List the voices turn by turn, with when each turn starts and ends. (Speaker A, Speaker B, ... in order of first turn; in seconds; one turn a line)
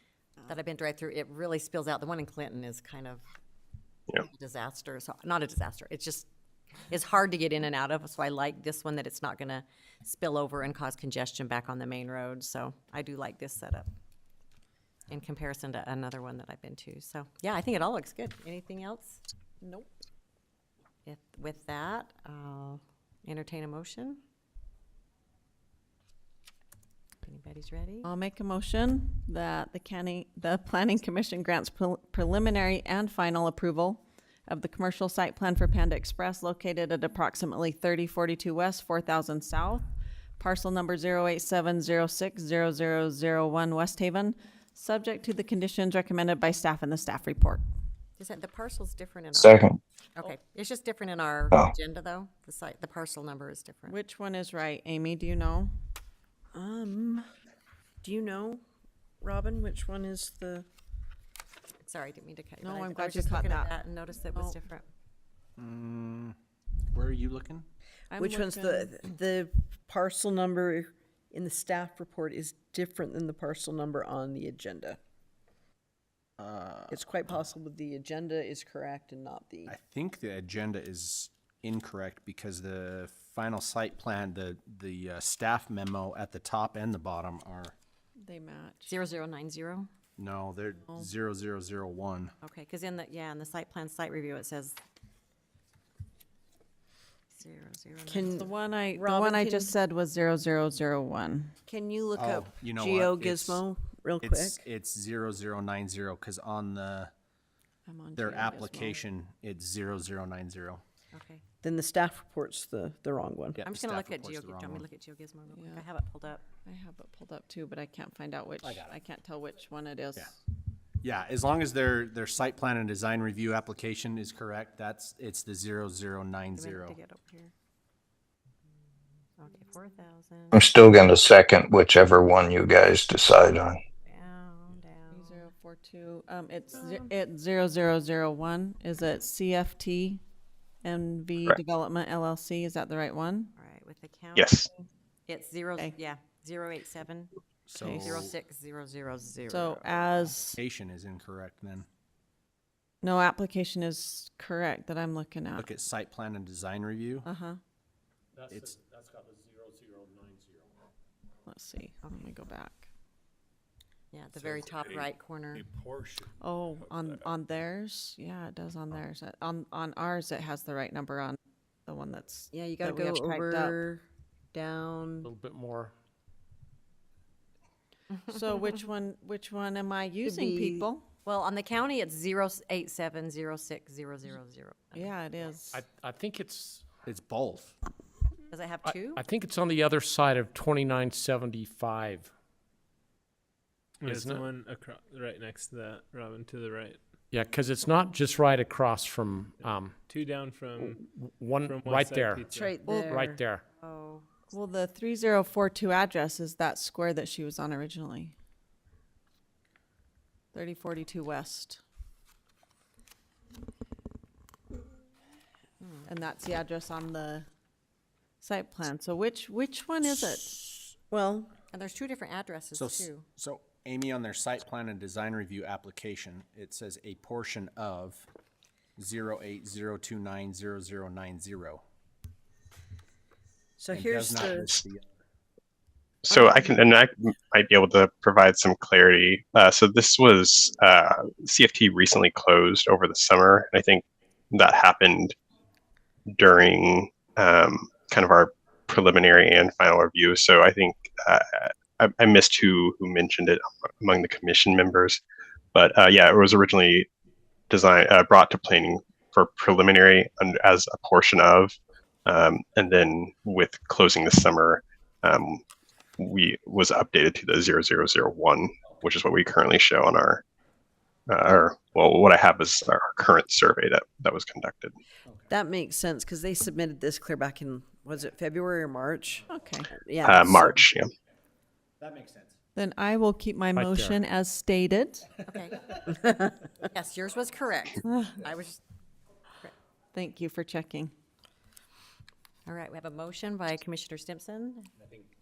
Speaker A: 0.5-3.2
Speaker A: 4.3-6.3
Speaker A: 6.9-13.9
Speaker A: 15.1-19.2
Speaker A: 21.0-24.2
Speaker A: 27.2-28.1
Speaker B: 28.0-39.8
Speaker B: 40.4-47.6
Speaker A: 48.2-49.6
Speaker C: 49.4-49.8
Speaker A: 50.1-54.0
Speaker B: 53.9-55.7
Speaker D: 56.5-57.3
Speaker D: 58.0-58.6
Speaker D: 59.2-60.6
Speaker A: 61.8-64.9
Speaker B: 62.6-63.8
Speaker B: 64.3-64.6
Speaker E: 65.6-66.3
Speaker E: 66.9-67.7
Speaker B: 68.1-68.9
Speaker D: 68.2-75.0
Speaker E: 76.4-77.0
Speaker D: 76.9-79.7
Speaker E: 79.7-87.7
Speaker B: 88.2-88.9
Speaker A: 88.9-89.9
Speaker E: 90.2-92.3
Speaker A: 92.4-94.8
Speaker A: 97.3-98.4
Speaker D: 98.1-99.7
Speaker B: 98.4-101.5
Speaker D: 101.7-104.6
Speaker E: 102.2-103.6
Speaker E: 104.2-107.1
Speaker B: 107.8-109.0
Speaker E: 108.2-110.8
Speaker A: 111.1-111.4
Speaker D: 111.6-113.6
Speaker E: 113.6-114.9
Speaker A: 113.6-116.4
Speaker B: 115.5-115.9
Speaker B: 116.5-120.3
Speaker E: 118.6-119.0
Speaker E: 121.0-127.0
Speaker A: 126.5-127.5
Speaker A: 129.4-130.6
Speaker C: 130.5-133.8
Speaker A: 134.1-135.5
Speaker B: 135.1-140.2
Speaker B: 140.8-143.5
Speaker A: 143.6-144.5
Speaker F: 144.3-144.7
Speaker A: 145.3-150.3
Speaker E: 147.7-148.3
Speaker B: 147.8-148.2
Speaker B: 149.5-150.6
Speaker E: 150.6-151.9
Speaker B: 153.0-155.7
Speaker E: 155.6-157.3
Speaker B: 157.2-157.6
Speaker E: 158.5-158.8
Speaker G: 158.8-160.3
Speaker B: 161.4-162.9
Speaker A: 164.1-165.6
Speaker B: 166.4-173.8
Speaker D: 172.5-175.3
Speaker G: 175.2-175.9
Speaker B: 178.3-181.1
Speaker D: 180.2-180.9
Speaker A: 181.2-185.1
Speaker B: 184.9-185.8
Speaker G: 185.7-186.8
Speaker E: 187.1-187.7
Speaker A: 188.5-189.2
Speaker G: 188.8-192.3
Speaker H: 194.0-197.1
Speaker G: 194.0-194.4
Speaker G: 197.3-200.0
Speaker H: 200.1-201.0
Speaker G: 200.8-203.6
Speaker H: 201.6-202.7
Speaker D: 202.5-203.4
Speaker A: 203.8-204.3
Speaker B: 204.5-208.3
Speaker B: 210.5-211.8
Speaker A: 215.8-216.1
Speaker B: 216.1-217.5
Speaker B: 218.4-220.6
Speaker D: 221.1-221.5
Speaker A: 221.7-223.2
Speaker E: 222.7-228.3
Speaker E: 229.0-231.8
Speaker D: 233.8-234.8
Speaker E: 233.9-235.0
Speaker F: 236.2-245.3
Speaker F: 246.3-255.2
Speaker F: 255.7-257.1
Speaker F: 257.7-265.6
Speaker F: 266.2-270.4
Speaker F: 271.3-274.9
Speaker D: 275.5-280.9
Speaker B: 279.5-279.9
Speaker F: 280.2-281.1
Speaker B: 282.7-285.3
Speaker G: 283.8-284.2
Speaker A: 285.5-286.0
Speaker D: 286.1-286.4
Speaker A: 286.9-288.8
Speaker B: 290.1-291.1
Speaker A: 292.6-294.9